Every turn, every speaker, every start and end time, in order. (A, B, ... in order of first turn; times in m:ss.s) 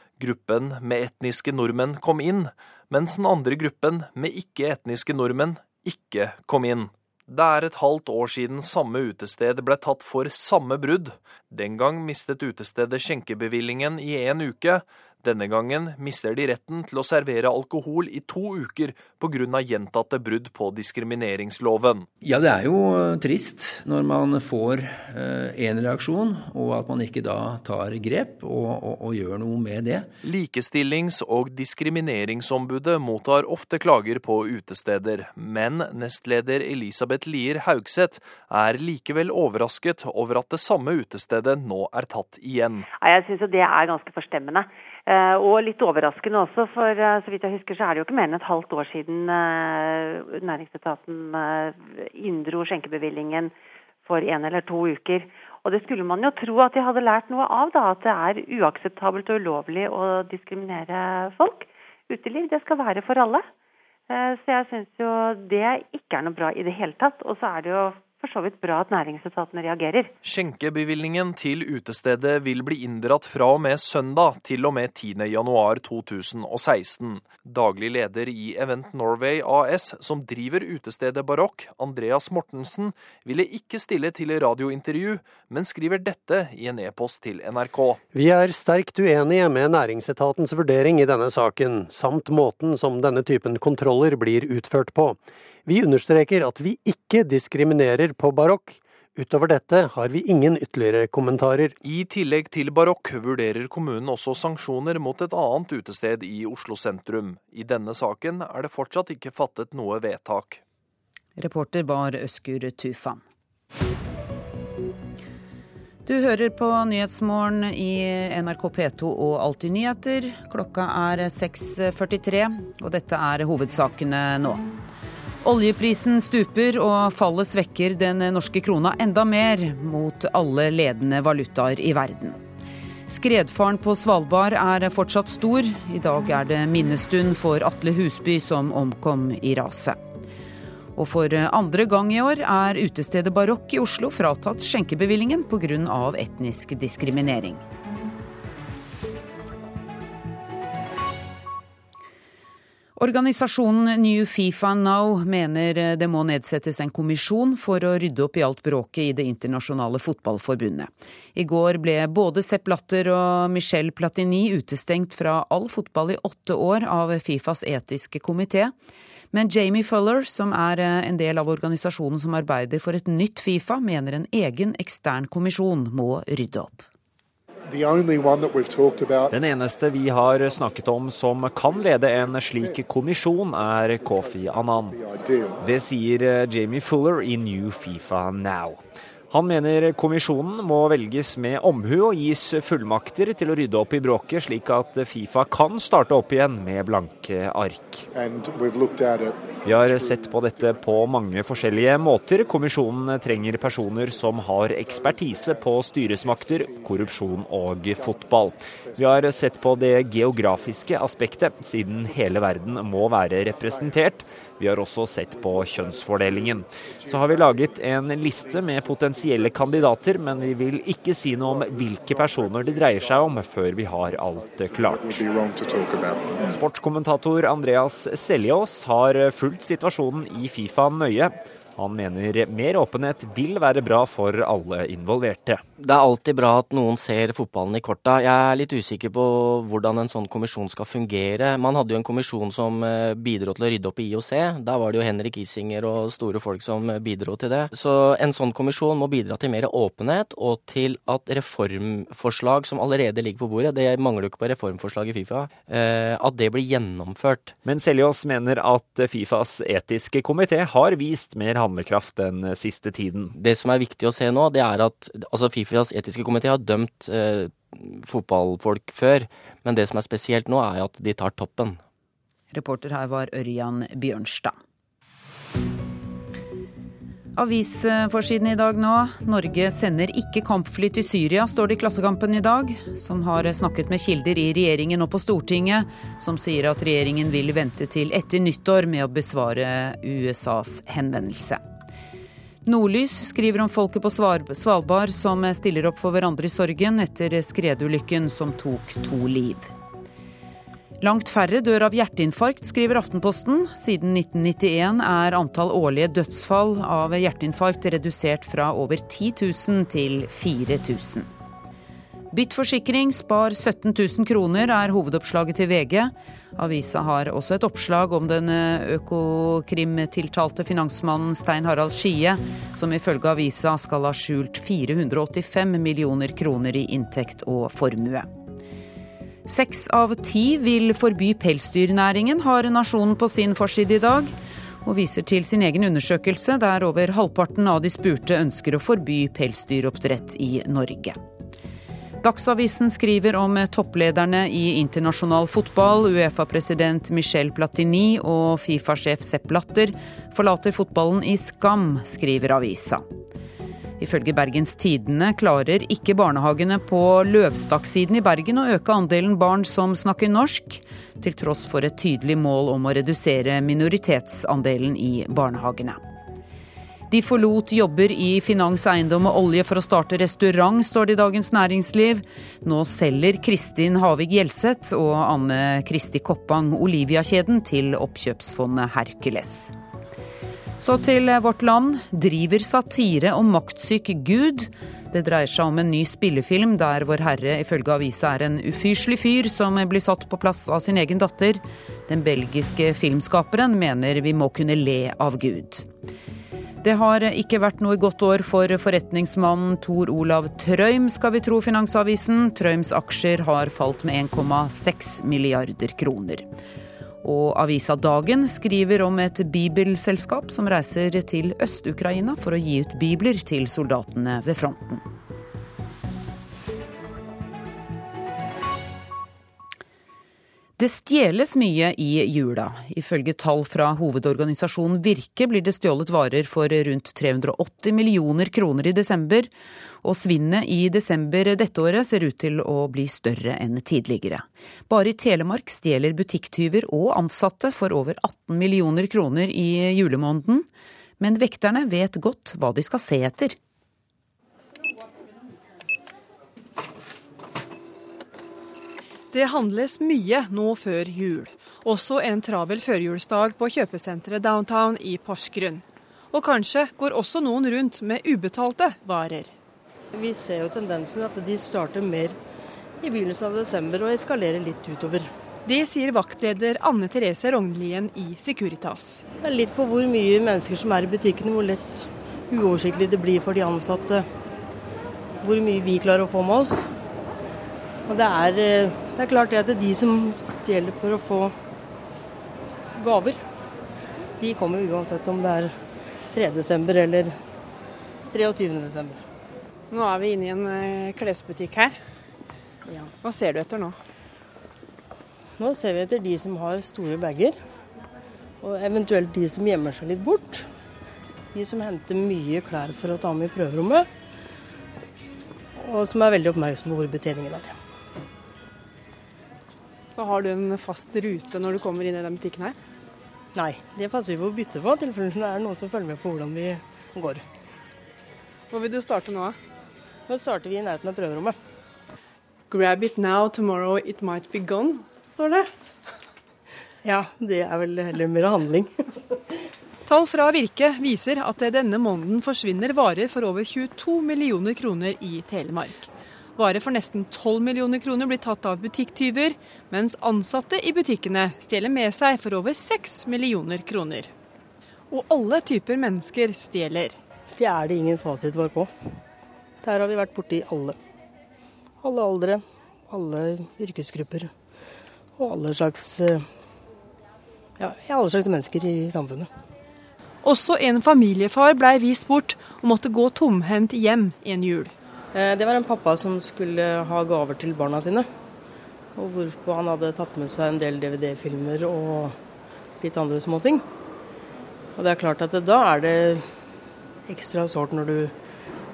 0:00.2-0:22.1 A
0:22.2-0:30.1 B
0:30.2-0:42.9 A
0:43.0-0:53.5 C
0:54.0-1:03.5 C
1:04.1-1:10.1 C
1:10.2-1:28.0 A
1:28.1-1:41.8 D
1:41.8-1:50.6 A
1:51.4-1:53.2 E
1:56.1-2:04.6 E
2:05.4-2:12.4 E
2:13.1-2:20.0 E
2:21.0-2:27.6 E
2:33.0-2:48.7 E
2:49.3-2:56.9 E
2:59.3-3:05.0 F
3:05.6-3:18.1 F
3:19.6-3:45.3 F
3:46.4-3:55.6 F
3:55.8-4:17.6 G
4:17.6-4:23.3 F
4:23.3-4:31.8 G
4:32.5-4:34.6 E
4:37.4-4:51.6 E
4:52.6-4:59.7 E
5:01.0-5:11.3 E
5:12.3-5:28.3 E
5:29.5-5:34.3 E
5:34.8-5:41.2 E
5:42.2-5:53.0 E
5:54.0-6:06.0 E
6:07.1-6:19.7 E
6:20.8-6:35.9 E
6:36.8-6:46.5 E
6:47.2-6:55.0 E
7:00.8-7:09.5 E
7:10.0-7:20.7 E
7:21.2-7:23.6 E
7:29.3-7:39.5 H
7:40.1-7:42.4 I
7:43.0-7:45.3 I
7:45.7-7:49.2 H
7:49.4-7:54.3 I
7:55.4-7:56.9 I
7:58.1-8:01.6 I
8:03.0-8:03.4 I
8:04.4-8:05.8 I
8:06.3-8:07.4 I
8:08.3-8:09.2 I
8:09.9-8:12.0 H
8:13.2-8:14.0 H
8:15.6-8:17.6 I
8:18.6-8:20.7 I
8:21.5-8:24.1 I
8:25.8-8:27.8 I
8:30.2-8:32.8 H
8:33.5-8:37.4 I
8:38.7-8:39.6 H
8:40.3-8:41.6 I
8:42.7-8:45.7 H
8:47.0-8:49.1 I
8:50.1-9:04.3 H
9:05.1-9:07.2 H
9:07.6-9:08.9 I
9:09.8-9:11.0 I
9:12.0-9:14.5 I
9:15.4-9:16.5 I
9:17.8-9:19.5 I
9:20.4-9:24.9 H
9:25.3-9:28.3 I
9:29.2-9:32.4 I
9:33.0-9:33.8 I
9:35.0-9:36.5 I
9:37.3-9:38.3 I